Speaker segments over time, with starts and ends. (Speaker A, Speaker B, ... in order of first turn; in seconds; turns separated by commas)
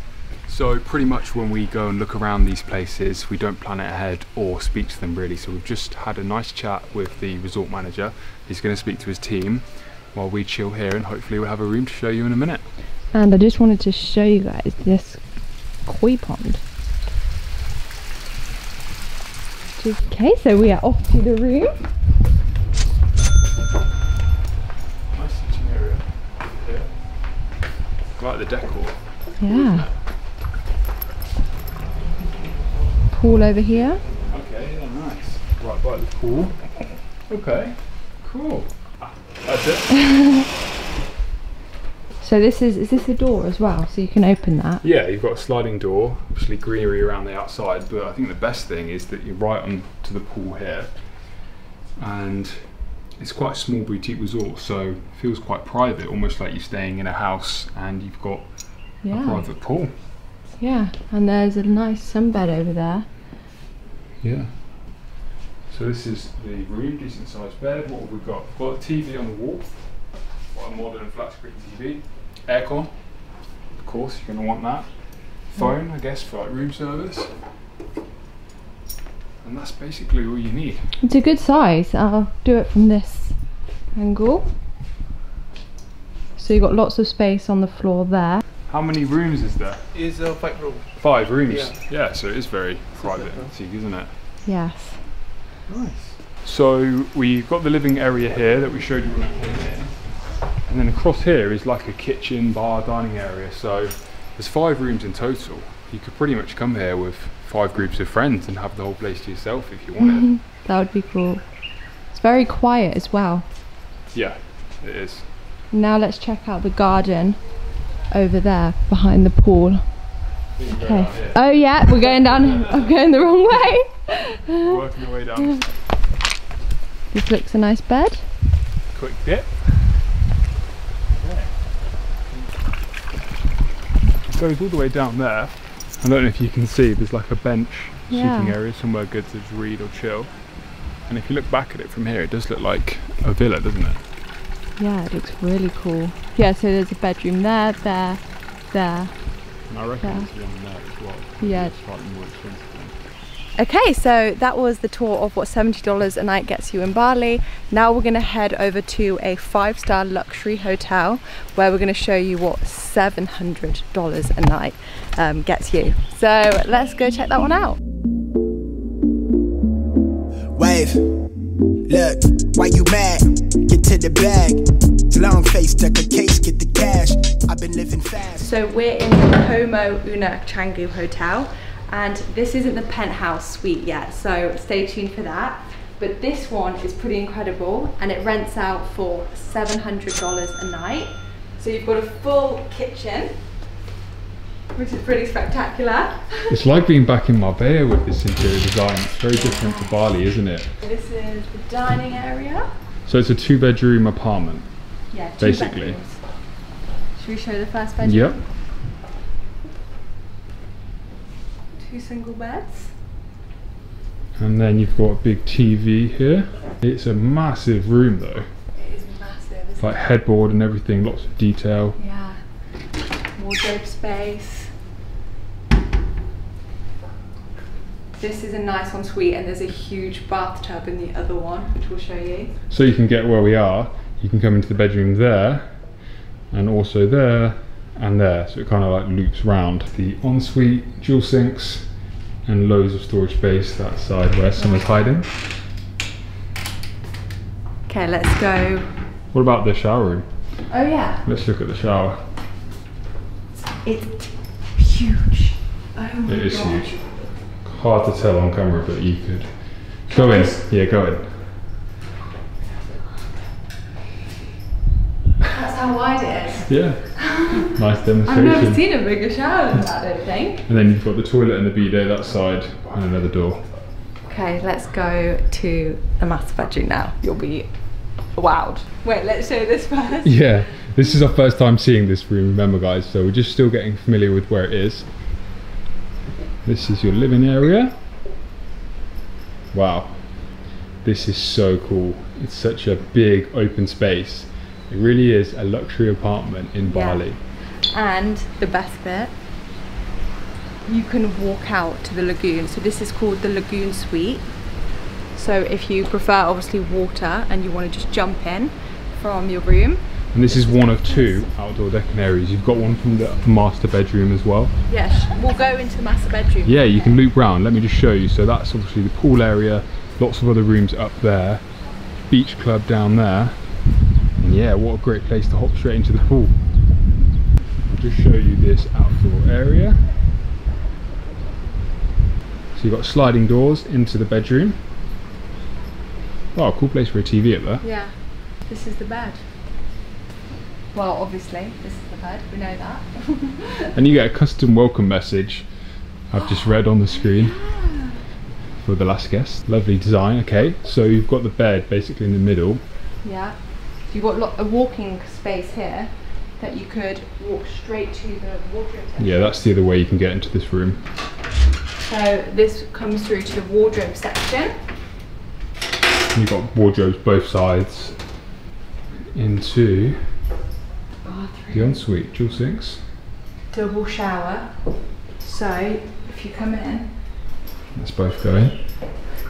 Speaker A: 0.5-12.7, Speaker B: 13.1-15.3, Speaker B: 15.8-16.6, Speaker B: 19.8-21.8, Speaker A: 25.1-27.1, Speaker A: 28.1-29.9, Speaker B: 29.4-29.9, Speaker B: 33.1-34.0, Speaker A: 34.1-40.1, Speaker B: 40.1-40.4, Speaker B: 42.2-44.8, Speaker A: 44.8-51.3, Speaker A: 52.0-59.9, Speaker B: 59.0-59.5, Speaker B: 60.5-63.1, Speaker A: 64.2-65.2, Speaker A: 65.7-73.0, Speaker A: 73.7-77.3, Speaker A: 79.4-80.9, Speaker B: 81.0-83.4, Speaker B: 83.9-84.5, Speaker B: 86.4-88.4, Speaker A: 88.7-89.9, Speaker C: 89.9-91.8, Speaker A: 90.9-94.2, Speaker C: 93.0-93.5, Speaker B: 94.4-95.1, Speaker A: 95.7-110.3, Speaker B: 110.0-111.4, Speaker B: 112.1-113.5, Speaker A: 114.1-115.3, Speaker B: 115.7-117.4, Speaker B: 118.1-119.8, Speaker A: 120.6-122.7, Speaker B: 120.7-124.8, Speaker A: 124.6-125.7, Speaker B: 127.1-128.3, Speaker A: 128.9-129.8, Speaker A: 131.2-132.6, Speaker A: 134.3-144.0, Speaker B: 138.1-138.6, Speaker B: 144.8-150.3, Speaker A: 149.7-153.0, Speaker B: 151.4-151.8, Speaker B: 153.6-167.8, Speaker D: 170.5-171.0, Speaker D: 171.9-178.5, Speaker B: 178.4-193.3, Speaker B: 194.7-196.6, Speaker A: 196.5-200.7, Speaker B: 199.3-200.2, Speaker B: 200.8-202.7, Speaker A: 203.1-204.7, Speaker B: 205.1-206.2, Speaker A: 205.4-206.0, Speaker B: 207.2-208.4, Speaker A: 208.0-208.4, Speaker B: 211.7-212.9, Speaker A: 214.4-218.5, Speaker B: 218.8-220.0, Speaker A: 219.8-222.0, Speaker B: 222.0-222.4, Speaker B: 223.3-224.7, Speaker B: 228.2-232.6, Speaker A: 232.7-235.9, Speaker A: 236.5-245.3, Speaker B: 244.6-245.1, Speaker B: 247.9-248.9, Speaker A: 249.3-250.3, Speaker B: 250.7-251.2, Speaker A: 251.2-252.2, Speaker B: 253.7-257.1, Speaker A: 256.2-261.4, Speaker B: 260.1-260.6, Speaker B: 265.5-267.7, Speaker A: 266.6-268.8, Speaker B: 268.2-270.7, Speaker A: 270.6-273.7, Speaker B: 274.3-280.5, Speaker A: 280.2-285.1, Speaker A: 286.6-287.9, Speaker A: 289.7-297.4, Speaker B: 296.8-299.3, Speaker B: 300.9-311.4, Speaker A: 310.3-314.8, Speaker B: 314.9-316.8, Speaker A: 316.6-321.7, Speaker A: 322.3-323.7, Speaker A: 324.4-326.6, Speaker A: 328.0-330.1, Speaker A: 332.7-334.8, Speaker A: 336.5-337.8, Speaker B: 337.8-339.4, Speaker B: 340.9-343.9, Speaker A: 343.9-345.8, Speaker A: 346.3-347.6, Speaker B: 346.4-348.2, Speaker A: 348.8-352.8, Speaker B: 353.2-359.6, Speaker A: 359.2-361.1, Speaker B: 362.0-364.7, Speaker A: 366.3-368.2, Speaker A: 369.3-370.3, Speaker B: 371.2-372.0, Speaker A: 371.7-373.0, Speaker B: 373.7-377.1, Speaker A: 377.9-378.8